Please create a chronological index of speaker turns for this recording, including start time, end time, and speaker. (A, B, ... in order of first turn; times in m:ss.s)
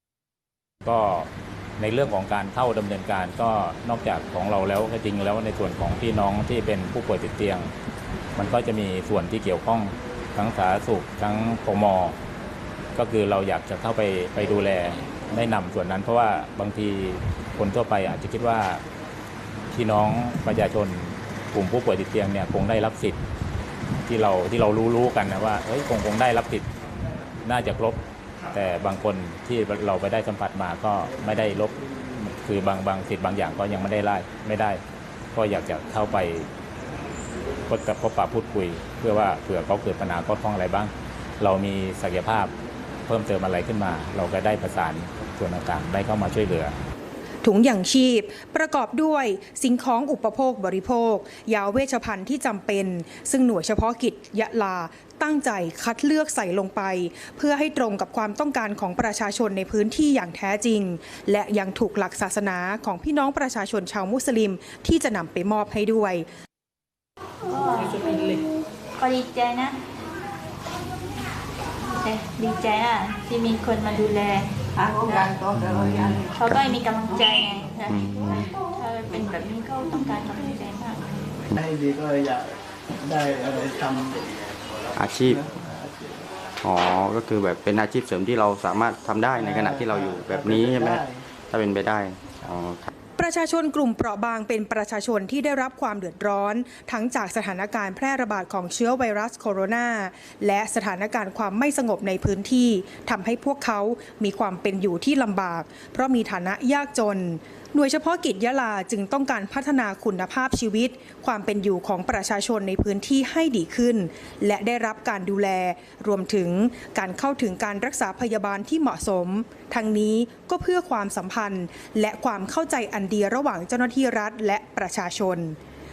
0:00.8-0:07.7 A
0:08.3-0:12.2 A
0:13.0-0:18.8 A
0:19.7-0:23.2 A
0:24.1-0:26.7 A
0:27.4-0:28.0 A
0:28.5-0:34.8 A
0:35.3-0:36.5 A
0:37.7-0:42.5 A
0:43.1-0:46.8 A
0:47.4-1:06.2 B
1:07.4-1:08.4 C
1:09.0-1:09.8 C
1:11.8-1:21.4 C
1:15.5-1:16.7 D
1:17.9-1:18.5 D
1:21.6-1:24.2 E
1:25.0-1:25.4 D
1:25.3-1:26.3 E
1:26.6-1:32.9 D
1:29.3-1:31.2 E
1:33.2-2:05.6 B